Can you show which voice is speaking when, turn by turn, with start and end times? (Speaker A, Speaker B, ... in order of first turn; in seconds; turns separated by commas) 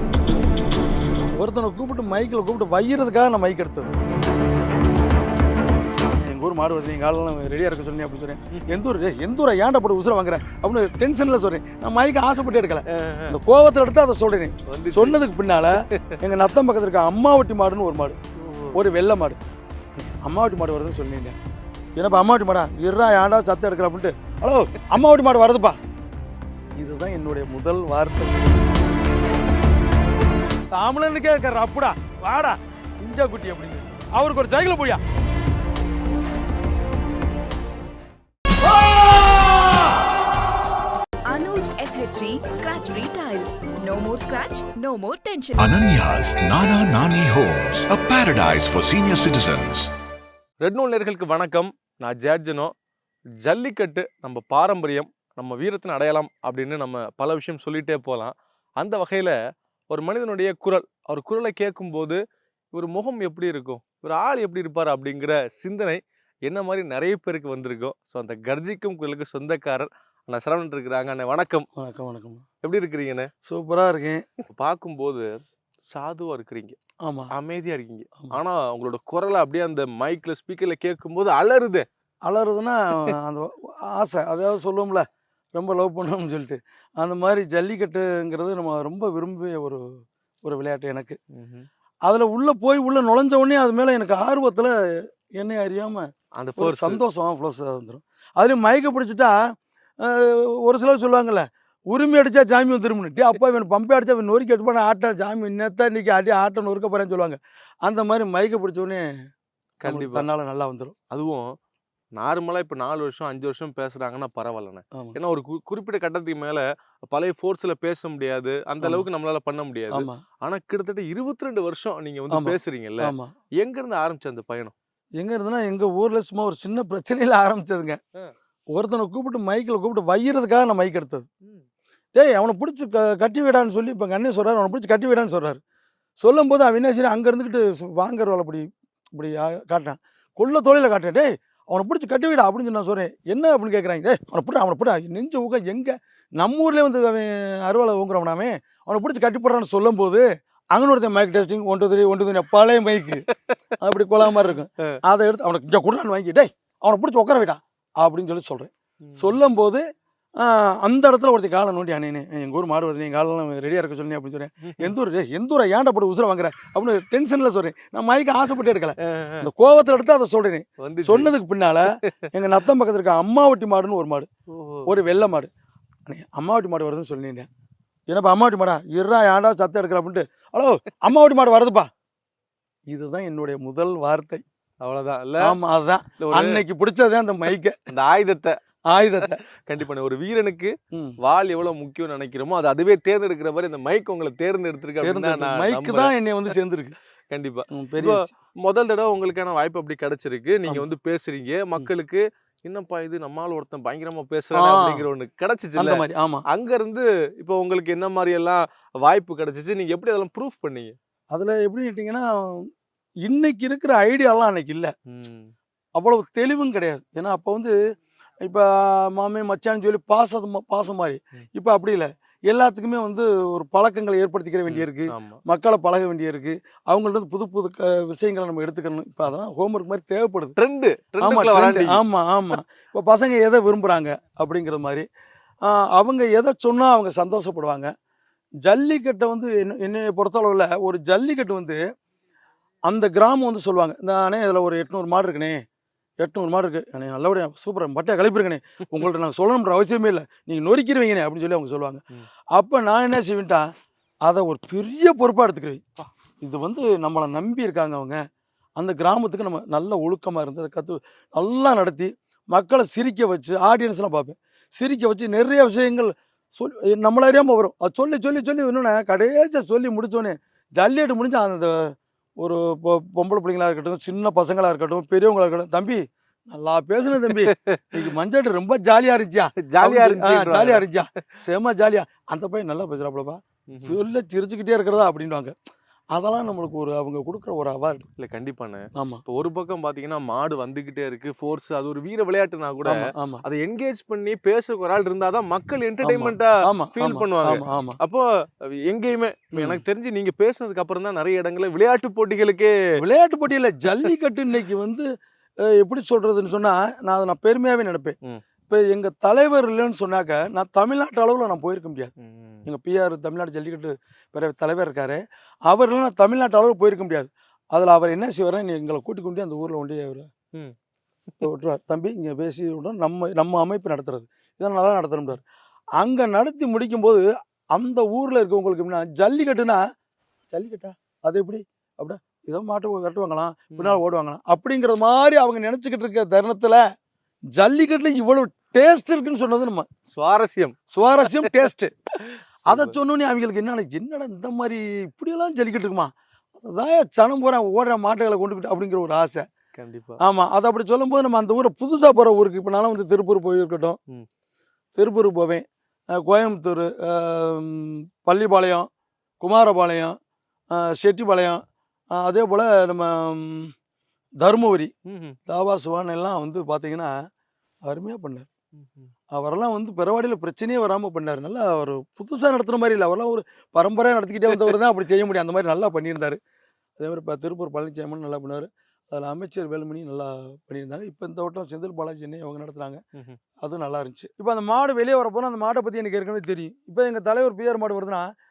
Speaker A: 1.4-3.9, Speaker A: 6.1-18.2, Speaker B: 12.9-13.3, Speaker B: 14.7-15.2, Speaker B: 15.9-16.1, Speaker B: 18.4-18.8, Speaker A: 18.7-19.4, Speaker A: 20.0-21.3, Speaker A: 22.0-25.8, Speaker A: 26.8-28.4, Speaker A: 30.7-35.0, Speaker C: 41.3-45.7, Speaker D: 45.6-49.9, Speaker B: 50.6-52.7, Speaker B: 53.4-59.3, Speaker B: 59.9-62.2, Speaker B: 62.7-71.7, Speaker A: 71.8-72.4, Speaker B: 72.6-73.3, Speaker A: 73.5-74.2, Speaker B: 74.5-76.8, Speaker A: 77.0-77.3, Speaker B: 77.3-81.8, Speaker A: 82.2-89.8, Speaker A: 90.4-91.2, Speaker B: 91.3-91.7, Speaker A: 92.0-94.7, Speaker A: 95.4-96.0, Speaker B: 96.4-97.0, Speaker A: 96.6-99.3, Speaker A: 100.0-109.0, Speaker B: 109.8-110.2, Speaker A: 109.8-110.9, Speaker B: 111.1-111.5, Speaker B: 112.2-124.7, Speaker A: 118.8-119.0, Speaker A: 119.9-120.2, Speaker A: 122.3-123.3, Speaker A: 125.2-128.0, Speaker A: 128.7-131.3, Speaker A: 132.1-135.6, Speaker A: 136.2-153.2, Speaker A: 153.8-159.8, Speaker B: 159.1-159.3, Speaker A: 160.4-174.3, Speaker B: 169.1-169.4, Speaker B: 170.8-171.3, Speaker B: 174.5-174.9, Speaker A: 174.8-175.5, Speaker A: 176.1-177.5, Speaker A: 178.1-181.9, Speaker A: 182.9-184.4, Speaker B: 184.8-185.5, Speaker A: 185.4-187.8, Speaker B: 186.2-186.6, Speaker B: 187.9-188.6, Speaker A: 188.9-189.4, Speaker B: 189.2-196.1, Speaker A: 190.9-191.2, Speaker A: 195.0-196.9, Speaker B: 197.3-210.9, Speaker A: 197.7-198.3, Speaker A: 204.5-205.0, Speaker A: 205.8-206.4, Speaker A: 211.3-212.7, Speaker A: 213.2-214.9, Speaker B: 215.1-215.5, Speaker A: 215.9-217.7, Speaker A: 218.4-230.5, Speaker B: 224.7-225.4, Speaker B: 230.6-232.0, Speaker A: 231.2-235.1, Speaker A: 235.6-237.9, Speaker A: 238.6-241.8, Speaker A: 242.9-245.6, Speaker A: 246.2-252.0, Speaker A: 252.5-253.6, Speaker A: 254.2-258.2, Speaker A: 258.8-285.5, Speaker B: 277.3-278.0, Speaker B: 279.6-280.9, Speaker B: 283.7-284.0, Speaker A: 286.1-288.1, Speaker B: 288.2-298.2, Speaker A: 288.9-289.2, Speaker A: 292.8-293.4, Speaker A: 296.0-298.0, Speaker B: 298.9-302.7, Speaker A: 299.5-299.8, Speaker A: 303.0-305.1, Speaker A: 305.7-308.1, Speaker A: 308.7-312.1, Speaker B: 312.2-312.6, Speaker A: 312.6-320.2, Speaker A: 321.4-325.4, Speaker A: 326.0-327.2, Speaker A: 327.7-329.8, Speaker A: 330.5-336.8, Speaker B: 333.7-334.0, Speaker A: 337.6-339.9, Speaker B: 340.1-341.5, Speaker A: 340.9-341.9, Speaker B: 342.3-343.0, Speaker A: 342.7-349.4, Speaker B: 349.8-350.2, Speaker A: 350.2-354.0, Speaker A: 355.0-355.6, Speaker A: 356.1-358.9, Speaker A: 359.4-360.1, Speaker A: 360.7-361.6, Speaker A: 362.1-363.7, Speaker A: 364.4-364.9, Speaker B: 365.1-365.4, Speaker A: 365.5-367.1, Speaker A: 367.8-368.5, Speaker B: 368.8-369.1, Speaker A: 369.3-376.4, Speaker A: 377.0-383.0, Speaker A: 383.6-388.3